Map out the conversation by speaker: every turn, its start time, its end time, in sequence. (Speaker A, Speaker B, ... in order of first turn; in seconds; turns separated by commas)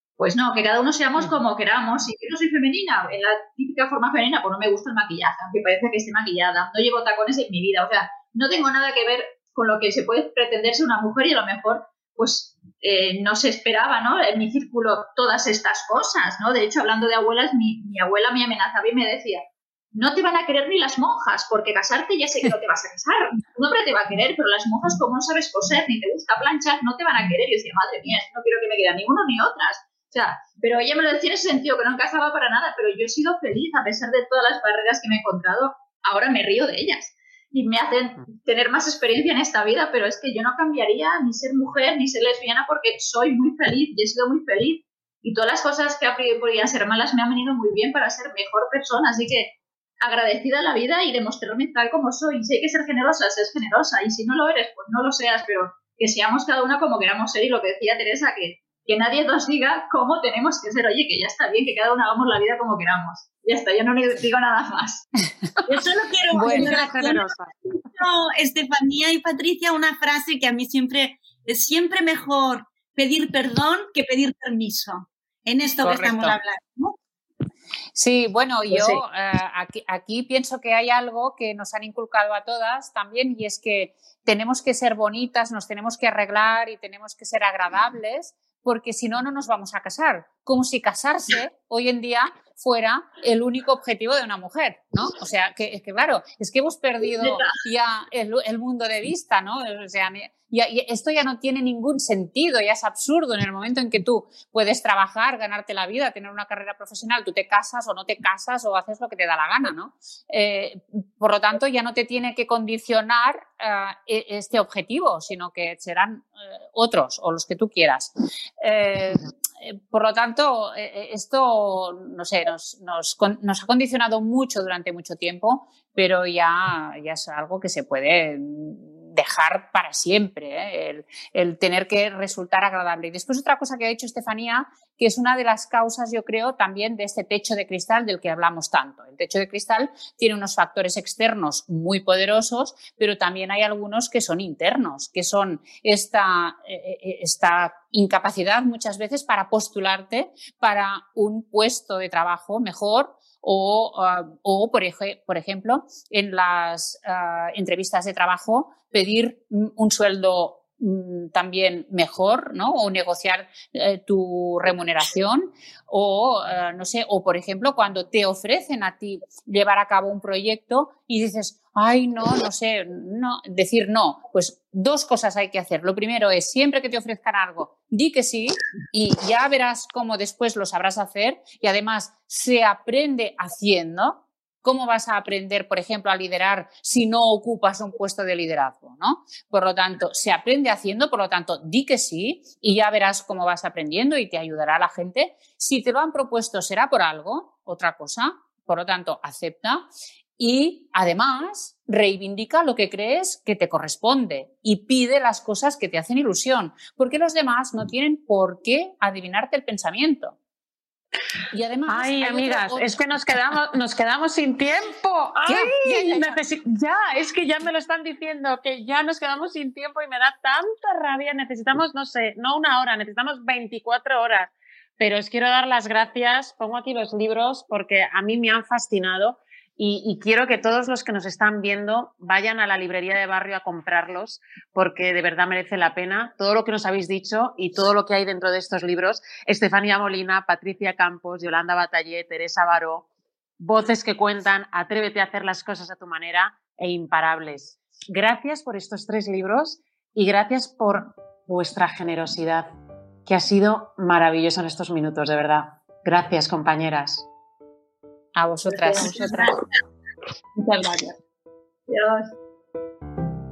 Speaker A: 0.2-65.1, Speaker B: 65.7-67.3, Speaker C: 66.3-67.0, Speaker D: 66.5-67.0, Speaker B: 67.8-77.0, Speaker C: 75.8-76.4, Speaker C: 78.0-199.9, Speaker A: 97.2-97.5, Speaker C: 200.4-210.4, Speaker C: 211.5-213.1, Speaker D: 211.9-243.1, Speaker C: 215.5-216.4, Speaker D: 243.6-252.7, Speaker D: 253.3-257.3, Speaker C: 258.4-259.6, Speaker A: 259.0-259.5, Speaker C: 260.6-261.1, Speaker A: 261.9-262.3